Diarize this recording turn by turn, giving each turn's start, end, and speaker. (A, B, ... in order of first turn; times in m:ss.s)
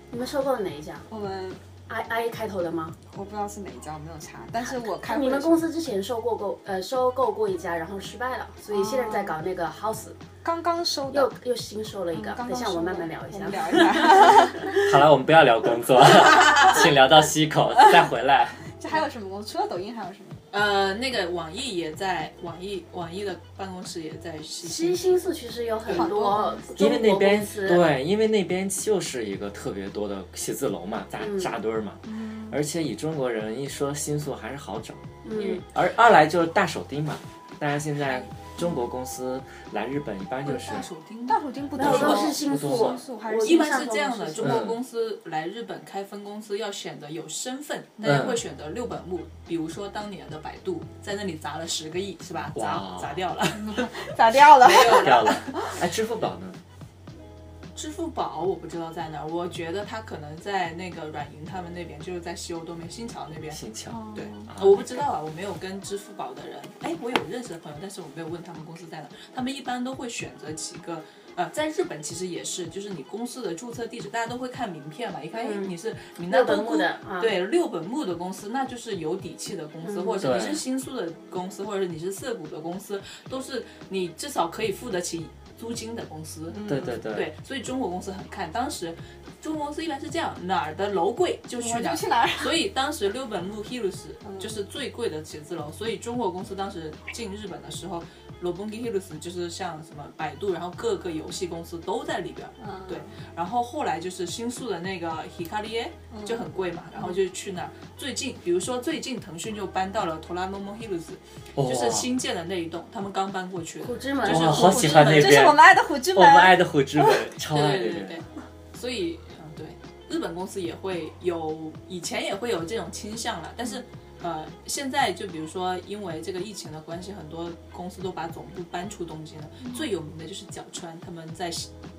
0:00.1-0:01.1 A
0:01.1-0:01.6 B
0:01.9-0:03.0 A
0:03.1-0:05.7 B
0:04.7-0:10.2 A
0:08.7-0:09.4 B
0:10.4-0:11.3 B
0:11.1-0:14.7 A
0:12.1-0:14.8 B
0:14.8-0:18.6 C
0:18.8-0:20.4 B
0:20.5-0:25.2 D
0:24.6-0:27.9 A
0:25.9-0:26.7 B
0:26.8-0:40.9 C
0:31.2-0:31.5 A
0:32.1-0:32.6 B
0:35.2-0:35.6 A
0:40.4-0:42.4 D
0:41.3-0:43.9 B
0:41.8-0:44.6 A
0:41.8-0:43.0 C
0:43.4-0:55.7 D
0:44.4-0:44.8 C
0:48.0-0:48.4 C
0:52.6-0:53.2 C
0:53.6-0:55.7 B
0:54.8-0:56.6 C
0:57.8-1:03.6 D
1:03.5-1:04.9 C
1:03.9-1:04.5 B
1:04.2-1:55.5 D
1:15.3-1:15.7 A
1:16.3-1:17.3 A
1:19.8-1:20.2 A
1:20.2-1:20.6 C
1:26.5-1:27.0 B
1:26.7-1:27.3 C
1:31.6-1:32.6 B
1:34.2-1:34.6 B
1:42.6-1:43.1 B
1:46.1-1:47.2 B
1:51.6-1:52.1 C
1:53.8-1:54.8 A
1:54.2-1:58.2 C
1:54.4-1:57.2 B
1:57.5-2:11.7 D